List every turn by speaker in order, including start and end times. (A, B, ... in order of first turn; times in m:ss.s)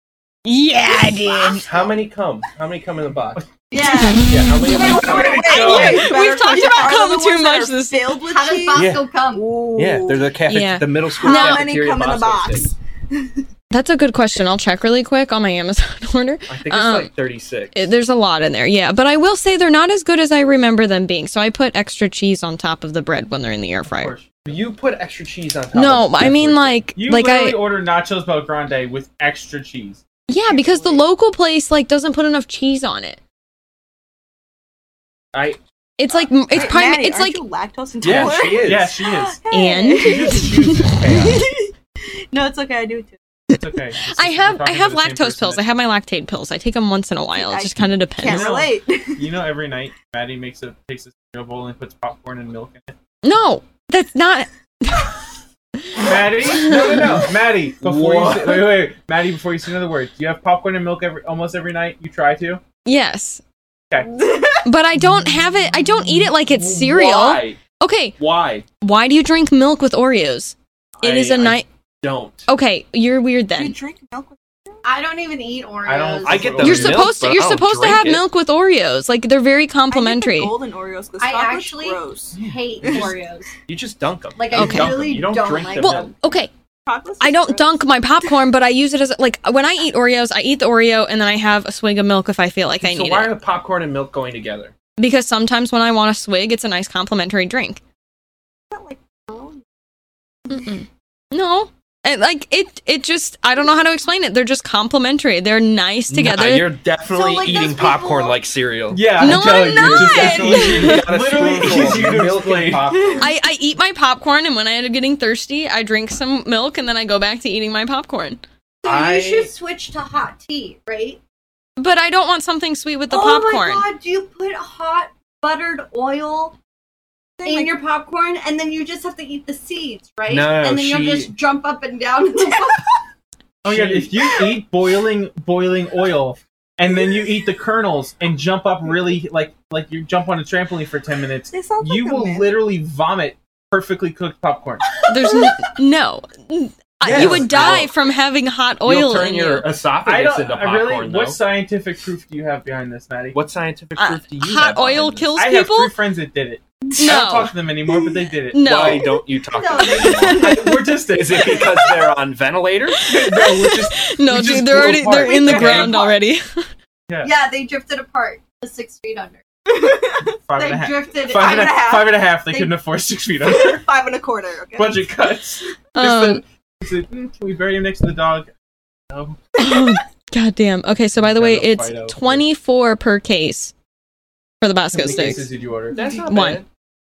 0:00.4-0:01.6 A
0:01.6-0:03.4 B
0:03.7-0:04.2 C
0:03.7-0:10.3 D
0:04.2-0:06.1 B
0:04.8-0:06.1 E
0:04.9-0:05.3 C
0:05.5-0:08.1 A
0:08.3-0:09.5 C
0:08.7-0:09.0 B
0:09.7-0:12.7 B
0:10.5-0:11.7 A
0:11.1-0:13.5 D
0:13.7-0:17.1 A
0:16.5-0:17.9 B
0:17.7-0:24.1 A
0:23.8-0:24.6 E
0:24.5-0:26.8 B
0:25.7-0:27.6 A
0:27.0-0:30.0 E
0:30.3-0:33.2 A
0:35.3-0:35.6 B
0:36.0-0:37.4 A
0:36.5-0:43.2 D
0:38.0-0:38.9 B
0:38.0-0:39.4 E
0:39.5-0:41.3 A
0:40.0-0:41.4 E
0:43.5-0:45.6 E
0:44.0-0:48.5 A
0:47.4-0:49.3 D
0:48.2-0:52.9 E
0:53.2-0:55.1 A
0:56.0-1:02.6 E
0:56.6-0:58.9 B
1:02.8-1:03.4 A
1:04.0-1:04.7 D
1:04.6-1:08.1 A
1:06.5-1:07.6 B
1:08.2-1:08.6 B
1:08.8-1:11.7 A
1:11.0-1:12.5 B
1:12.5-1:13.8 A
1:13.5-1:14.8 D
1:14.8-1:16.7 C
1:15.8-1:17.1 E
1:16.2-1:18.2 B
1:16.6-1:20.5 A
1:19.9-1:23.1 D
1:21.2-1:23.5 C
1:22.3-1:23.0 E
1:22.8-1:23.1 B
1:23.7-1:26.1 B
1:24.4-1:26.1 C
1:24.5-1:25.0 A
1:25.8-1:26.5 A
1:26.8-1:27.8 D
1:27.2-1:33.3 A
1:32.8-1:34.7 B
1:35.0-1:37.8 A
1:38.7-1:39.6 D
1:40.5-1:46.7 A
1:46.1-1:53.3 B
1:47.1-1:48.4 C
1:48.9-1:52.9 E
1:49.2-1:51.1 A
1:52.9-1:53.3 D
1:53.2-1:58.4 A
1:58.8-2:01.2 C
1:58.8-1:59.5 B
2:01.8-2:03.8 A
2:03.1-2:06.6 C
2:07.4-2:07.7 D
2:07.4-2:12.9 C
2:10.3-2:11.3 B
2:13.6-2:24.9 E
2:13.6-2:14.1 B
2:21.5-2:22.5 D
2:25.0-2:25.6 D
2:25.1-2:29.7 A
2:27.0-2:27.9 B
2:27.0-2:27.9 E
2:28.8-2:31.4 B
2:30.0-2:33.4 E
2:33.3-2:35.3 B
2:34.0-2:35.9 A
2:35.4-2:39.1 E
2:37.0-2:37.5 A
2:38.5-2:39.2 A
2:38.6-2:43.1 B
2:39.5-2:40.5 C
2:39.9-2:40.7 A
2:40.4-2:41.7 E
2:43.0-2:46.0 E
2:43.0-2:46.7 A
2:44.9-2:46.1 C
2:47.1-2:47.3 E
2:47.2-2:49.4 C
2:49.7-2:50.4 D
2:50.4-2:53.8 E
2:50.5-2:52.6 C
2:51.3-2:52.4 D
2:53.4-2:55.1 D
2:54.8-2:58.5 E
2:55.9-2:56.4 A
2:59.6-3:03.7 A
2:59.6-2:59.9 D
3:01.2-3:02.5 E
3:04.6-3:05.5 A
3:04.9-3:06.0 E
3:05.0-3:06.6 B
3:06.0-3:06.6 A